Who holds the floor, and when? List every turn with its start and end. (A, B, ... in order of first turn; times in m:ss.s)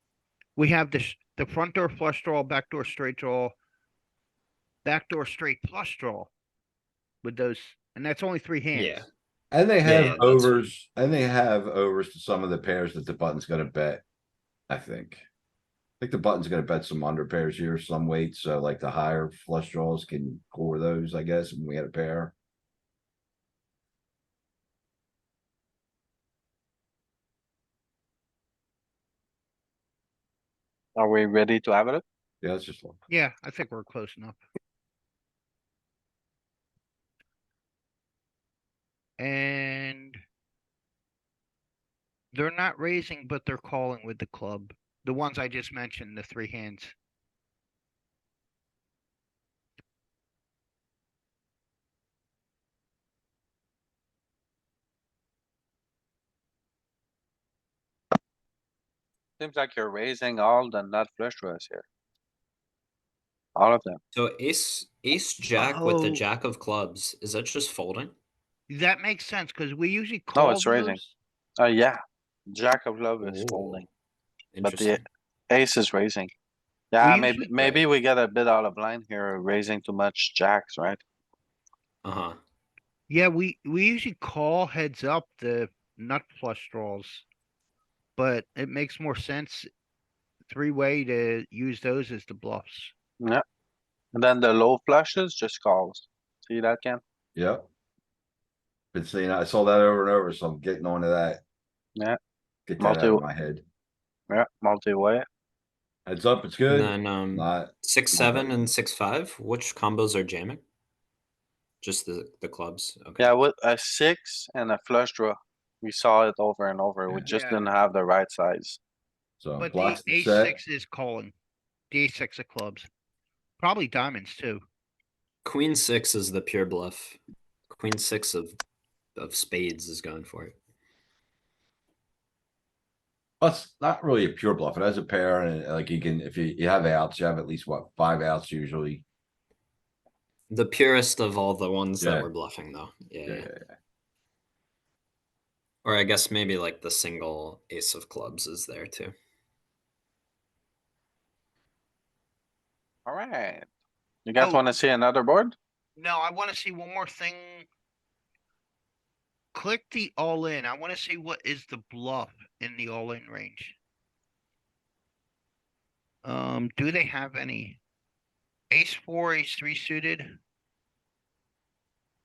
0:00.6-0:03.5 A
0:04.8-0:06.3 A
0:07.2-0:09.0 A
0:08.7-0:09.1 B
0:09.5-0:14.0 C
0:09.8-0:10.7 B
0:14.7-0:15.2 C
0:16.0-0:22.3 C
0:31.0-0:32.0 D
0:32.4-0:33.0 C
0:33.1-0:34.4 A
0:39.2-0:40.2 A
0:42.3-0:46.9 A
0:59.4-1:01.8 D
1:03.5-1:04.0 D
1:04.1-1:08.1 B
1:05.6-1:06.2 A
1:08.7-1:11.1 A
1:10.3-1:11.0 D
1:11.6-1:13.9 D
1:13.2-1:13.8 B
1:14.5-1:15.0 B
1:14.6-1:16.3 D
1:16.9-1:21.0 D
1:17.0-1:17.5 A
1:17.6-1:17.8 B
1:22.0-1:22.4 B
1:23.1-1:27.2 A
1:28.2-1:29.7 A
1:30.5-1:32.9 A
1:34.1-1:37.0 D
1:37.3-1:37.6 C
1:38.9-1:41.4 C
1:42.7-1:43.6 C
1:42.8-1:43.2 D
1:44.3-1:45.2 D
1:46.0-1:48.7 C
1:46.7-1:50.6 B
1:51.8-1:53.3 B
1:53.2-1:58.8 D
1:57.2-1:57.6 A
1:59.4-2:00.6 C
1:59.6-2:01.3 A
2:01.9-2:02.9 A
2:03.6-2:04.6 A
2:05.4-2:07.2 B
2:07.7-2:08.5 B
2:09.2-2:10.5 B
2:13.4-2:19.0 C
2:20.5-2:23.5 B
2:22.0-2:22.3 C
2:23.2-2:23.7 C
2:25.8-2:29.1 B
2:33.0-2:33.6 D
2:34.2-2:35.5 D
2:34.4-2:34.6 A
2:36.0-2:37.7 A
2:39.5-2:43.8 A
2:46.2-2:47.8 A
2:48.7-2:50.4 A